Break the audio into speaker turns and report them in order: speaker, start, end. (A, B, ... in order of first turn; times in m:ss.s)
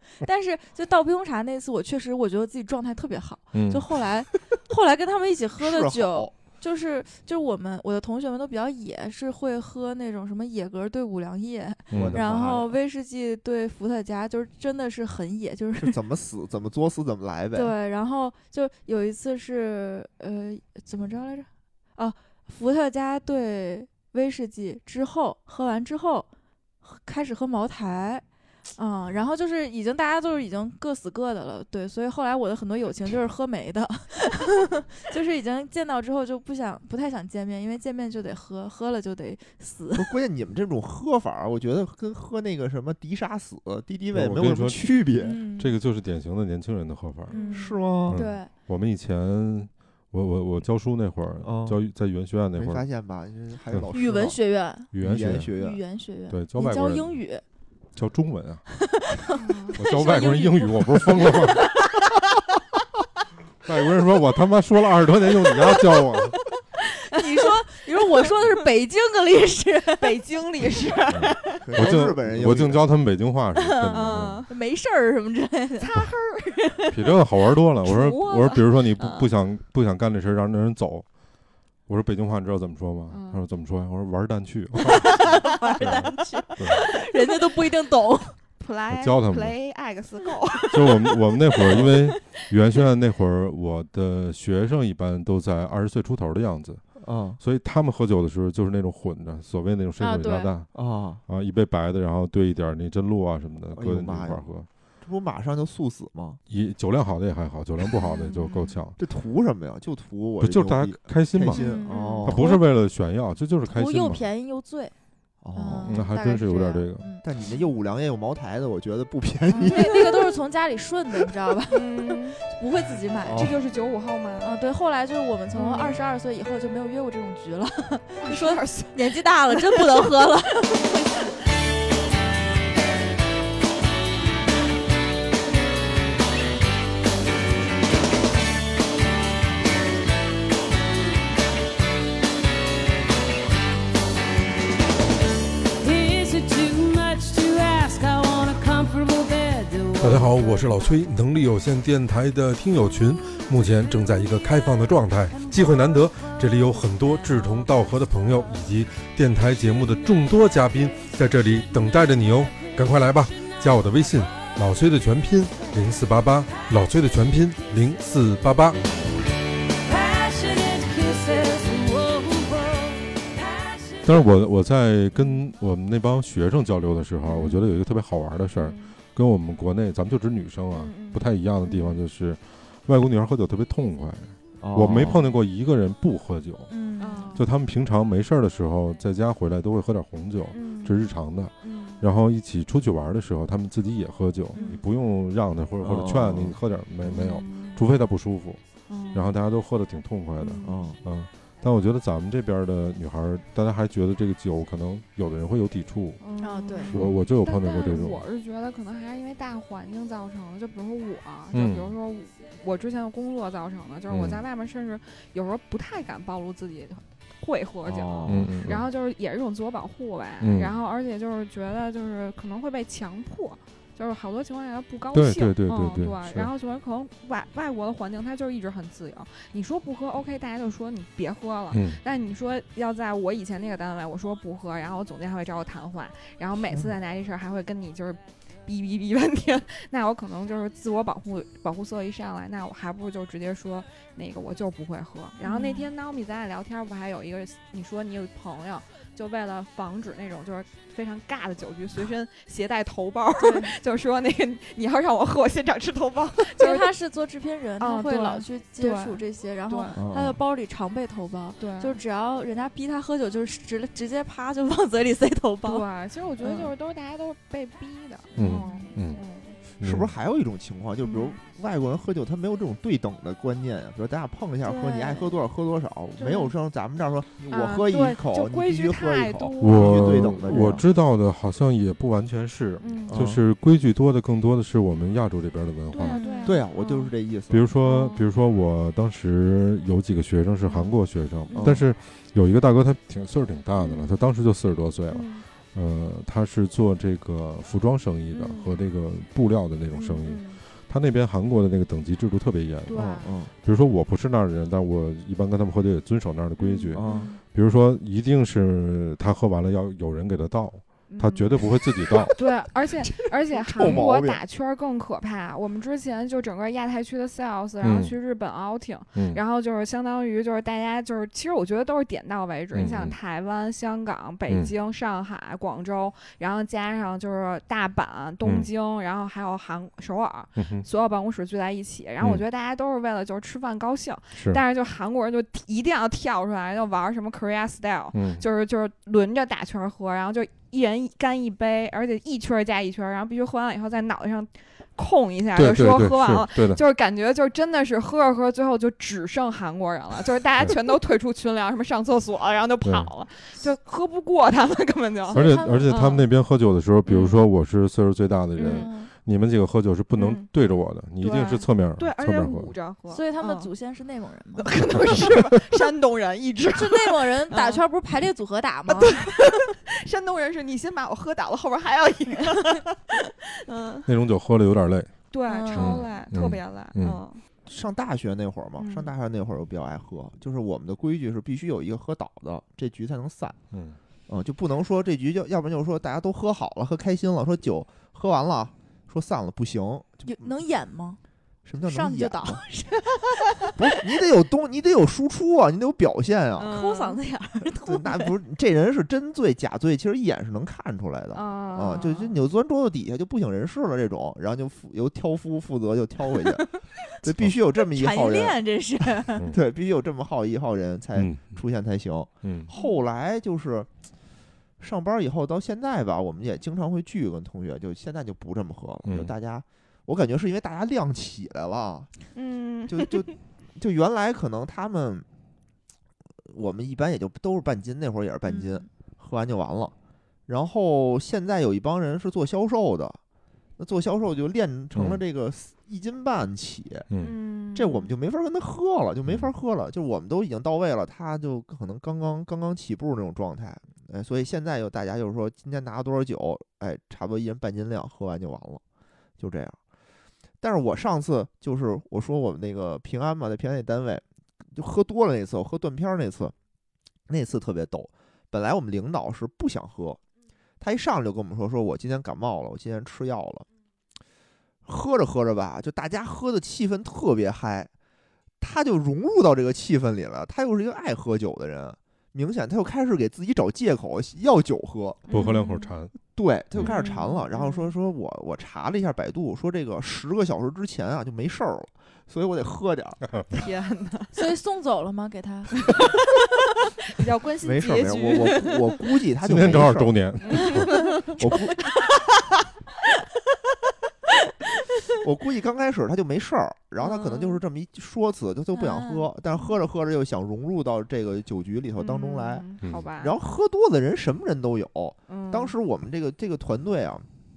0:00.2-0:16.0 A
0:03.5-0:03.8 B
0:05.6-0:06.3 C
0:11.9-0:12.2 B
0:11.9-0:12.8 C
0:15.8-0:17.7 C
0:17.5-0:26.3 A
0:26.8-0:28.2 A
0:28.8-0:40.1 A
0:40.0-0:45.4 C
0:44.1-0:45.0 B
0:45.2-0:45.8 A
0:45.6-0:47.4 B
0:47.3-0:47.8 D
0:47.3-0:48.5 A
0:47.5-0:48.2 C
0:48.1-0:52.8 B
0:51.4-0:51.8 C
0:52.6-0:54.4 C
0:53.9-0:54.9 A
0:54.9-0:55.5 B
0:55.0-0:55.8 C
0:55.6-0:57.4 A
0:56.3-0:57.2 B
0:57.9-0:58.6 B
0:58.8-1:01.5 A
0:59.4-0:59.8 D
0:59.8-1:01.7 B
1:03.6-1:06.4 B
1:07.0-1:10.2 A
1:10.0-1:12.0 D
1:11.1-1:14.5 B
1:11.6-1:12.9 C
1:13.6-1:15.9 A
1:13.9-1:14.5 D
1:15.8-1:17.2 D
1:16.9-1:21.1 B
1:17.8-1:19.3 D
1:21.9-1:26.8 B
1:23.1-1:23.4 D
1:24.9-1:28.4 A
1:25.2-1:26.0 D
1:28.6-1:32.4 D
1:28.9-1:29.6 B
1:30.7-1:36.8 B
1:37.0-1:37.4 C
1:37.4-1:44.7 B
1:40.0-1:40.5 A
1:40.7-1:41.2 C
1:43.7-1:44.5 C
1:45.0-1:46.4 C
1:46.5-1:49.0 B
1:48.0-1:48.8 D
1:49.0-1:52.5 C
1:50.4-1:51.7 B
1:51.5-1:52.6 A
1:51.9-1:52.3 D
1:52.2-1:54.2 B
1:53.7-1:55.0 A
1:55.4-1:56.0 C
1:55.5-1:57.2 A
1:55.9-1:57.1 B
1:57.2-2:00.1 C
1:59.5-2:03.5 A
1:59.6-2:00.3 D
2:01.7-2:02.4 D
2:03.2-2:03.6 C
2:03.3-2:04.5 D
2:04.4-2:11.2 A
2:05.5-2:06.0 D
2:08.2-2:10.1 D
2:25.8-2:30.7 E
2:30.0-2:48.8 B
2:35.4-2:35.7 E
2:49.7-2:54.3 E
2:54.0-3:06.7 B
2:55.1-2:55.5 D
2:57.2-2:57.6 D
2:58.6-2:59.0 D
3:00.7-3:02.0 D
3:04.6-3:05.3 C
3:04.9-3:05.4 D
3:06.7-3:07.4 A
3:07.0-3:07.5 D
3:07.4-3:18.6 B
3:10.5-3:12.0 D
3:14.5-3:14.8 A
3:14.6-3:14.8 D
3:15.8-3:16.6 C
3:17.0-3:17.8 D
3:18.9-3:19.4 D
3:19.1-3:26.2 B
3:20.4-3:20.9 D
3:20.6-3:21.0 C
3:26.2-4:16.9 D
3:26.4-3:27.0 A
3:26.9-3:28.2 B
3:31.5-3:32.0 B
3:34.1-3:34.4 B
3:37.8-3:38.5 C
3:38.3-3:38.9 B
3:40.4-3:40.7 B
3:45.1-3:46.5 B
3:51.7-3:52.0 B
3:56.7-3:57.0 C
4:05.4-4:05.9 A
4:13.4-4:13.8 A
4:16.6-4:25.8 A
4:17.8-4:20.0 D
4:20.0-4:20.4 C
4:21.6-4:22.0 D
4:25.6-4:29.6 D
4:26.4-4:26.7 A
4:28.4-4:29.2 B
4:28.5-4:28.9 A
4:29.8-4:40.8 C
4:29.8-4:30.1 B
4:31.0-4:31.4 D
4:34.6-4:35.3 D
4:36.2-4:36.6 D
4:37.5-4:40.8 D
4:39.6-4:46.2 B
4:42.8-4:43.2 D
4:43.1-4:43.4 C
4:45.9-4:47.1 D
4:46.1-4:46.6 A
4:46.4-4:47.7 C
4:47.5-5:12.4 B
4:47.8-4:48.3 D
4:50.6-4:51.8 D
4:51.5-4:51.8 C
4:53.8-4:54.3 D
4:55.1-4:55.5 D
4:58.3-4:58.9 D
4:59.9-5:00.6 D
5:02.9-5:03.3 D
5:03.0-5:03.5 C
5:06.6-5:07.4 D
5:07.0-5:07.3 C
5:11.1-5:11.7 D
5:12.4-5:56.3 D
5:13.7-5:14.4 C
5:17.8-5:18.2 B
5:19.2-5:19.4 B
5:22.7-5:23.2 B
5:30.6-5:30.9 B
5:34.4-5:34.6 B
5:38.1-5:38.4 B
5:45.6-5:46.8 B
5:52.8-5:53.1 B
5:55.3-5:56.0 A
5:55.3-6:02.7 B
5:57.1-5:57.5 D
5:58.6-5:58.9 D
5:58.6-5:59.1 A
6:00.2-6:00.5 D
6:01.2-6:03.7 D
6:03.1-6:04.7 A
6:04.6-6:07.8 D
6:06.6-6:09.2 A
6:08.9-6:14.1 D
6:14.1-6:15.1 B
6:15.3-6:17.4 D
6:15.5-6:16.1 A
6:15.7-6:17.2 B
6:17.7-6:23.6 C
6:18.8-6:19.1 D
6:23.7-6:24.0 B
6:24.3-6:30.5 C
6:30.2-6:31.2 A
6:31.6-6:32.6 C
6:31.8-6:33.8 A
6:33.8-6:36.8 C
6:36.6-6:37.2 D
6:36.6-6:38.3 A
6:37.8-6:46.7 C
6:41.3-6:42.4 D
6:47.2-6:48.6 C
6:47.9-6:49.4 A
6:49.5-6:53.9 C
6:51.2-6:51.4 B
6:52.4-6:52.7 B
6:52.7-6:53.0 D
6:54.8-7:02.1 C
6:59.1-6:59.3 B
7:02.4-7:03.4 D
7:02.9-7:05.3 C
7:06.5-7:09.9 C
7:08.5-7:08.8 A
7:10.5-7:13.2 C
7:13.8-7:17.1 C
7:15.0-7:15.2 B
7:17.2-7:18.1 D
7:17.8-7:28.8 C
7:29.4-7:29.8 C
7:30.6-7:36.5 C
7:37.3-7:40.2 C
7:40.8-7:43.6 C
7:44.8-7:47.9 C
7:48.6-7:55.3 C
7:55.3-7:55.9 D
7:55.3-7:56.1 B
7:56.4-8:03.2 C
7:56.8-7:57.9 D
8:03.5-8:04.4 D
8:04.3-8:05.7 A
8:07.1-8:09.0 D
8:07.6-8:10.2 C
8:09.4-8:10.9 B
8:10.4-8:11.5 D
8:10.9-8:11.3 A
8:11.3-8:11.9 C
8:15.2-8:22.7 C
8:17.0-8:17.6 D
8:18.7-8:19.3 A
8:22.0-8:23.4 D
8:23.2-8:27.3 C
8:25.3-8:25.8 D